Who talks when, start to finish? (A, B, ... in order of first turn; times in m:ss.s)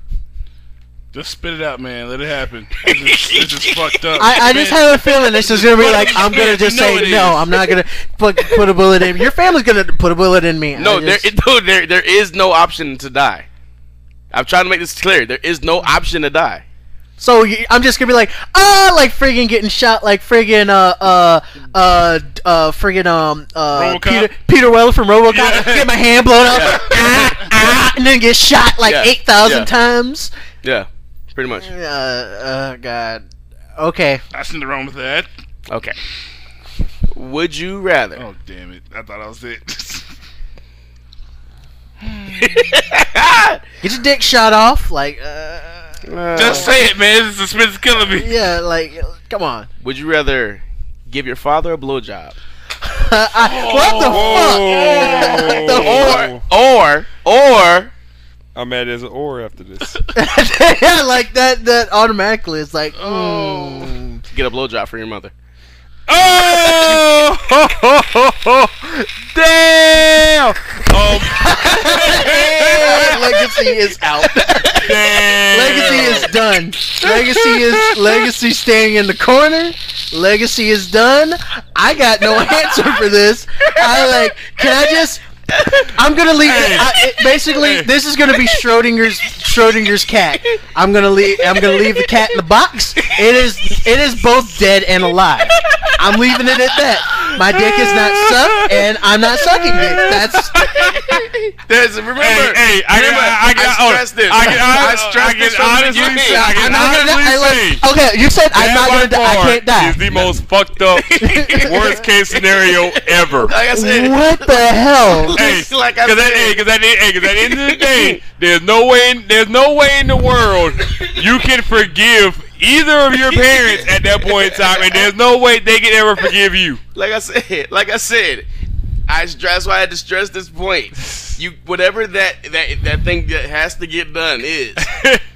0:01.1-0:07.6 A
0:03.1-0:03.9 B
0:04.2-0:11.2 C
0:10.8-0:13.5 B
0:14.3-0:16.6 B
0:17.2-0:30.3 C
0:23.7-0:24.3 A
0:25.3-0:25.9 A
0:26.5-0:26.9 B
0:28.8-0:29.7 B
0:30.6-0:31.7 B
0:31.6-0:33.2 C
0:33.8-0:34.2 C
0:34.3-0:35.3 A
0:35.7-0:36.0 B
0:37.1-0:38.2 B
0:38.2-0:40.1 A
0:42.0-0:42.8 A
0:42.4-0:43.6 B
0:43.8-0:46.6 C
0:46.0-0:46.7 B
0:46.3-0:48.3 A
0:48.1-0:49.7 C
0:49.8-0:52.4 B
0:52.8-0:56.3 C
0:53.3-0:55.6 A
0:54.0-0:56.4 D
0:55.3-0:57.9 B
0:58.5-1:00.0 D
1:00.1-1:04.2 C
1:02.9-1:03.9 A
1:04.3-1:05.3 B
1:06.1-1:13.2 D
1:11.2-1:14.9 C
1:12.7-1:13.3 B
1:14.1-1:15.0 B
1:14.8-1:16.3 D
1:15.5-1:25.2 C
1:17.2-1:18.1 D
1:22.3-1:23.0 B
1:23.6-1:26.1 B
1:25.9-1:40.9 C
1:26.4-1:27.0 D
1:26.6-1:27.4 B
1:27.6-1:27.9 D
1:28.3-1:28.6 B
1:31.4-1:32.1 B
1:33.0-1:33.3 B
1:35.5-1:36.8 B
1:37.1-1:41.2 D
1:41.1-1:47.1 B
1:42.2-1:47.8 D
1:44.4-1:45.0 C
1:46.0-1:50.0 C
1:48.5-1:53.5 D
1:50.1-1:56.6 B
1:51.2-1:51.9 C
1:53.7-1:55.3 C
1:55.3-2:06.8 D
1:57.2-1:58.2 B
2:00.8-2:01.1 B
2:03.2-2:05.1 B
2:06.9-2:08.4 B
2:09.1-2:14.9 B
2:14.8-2:15.2 D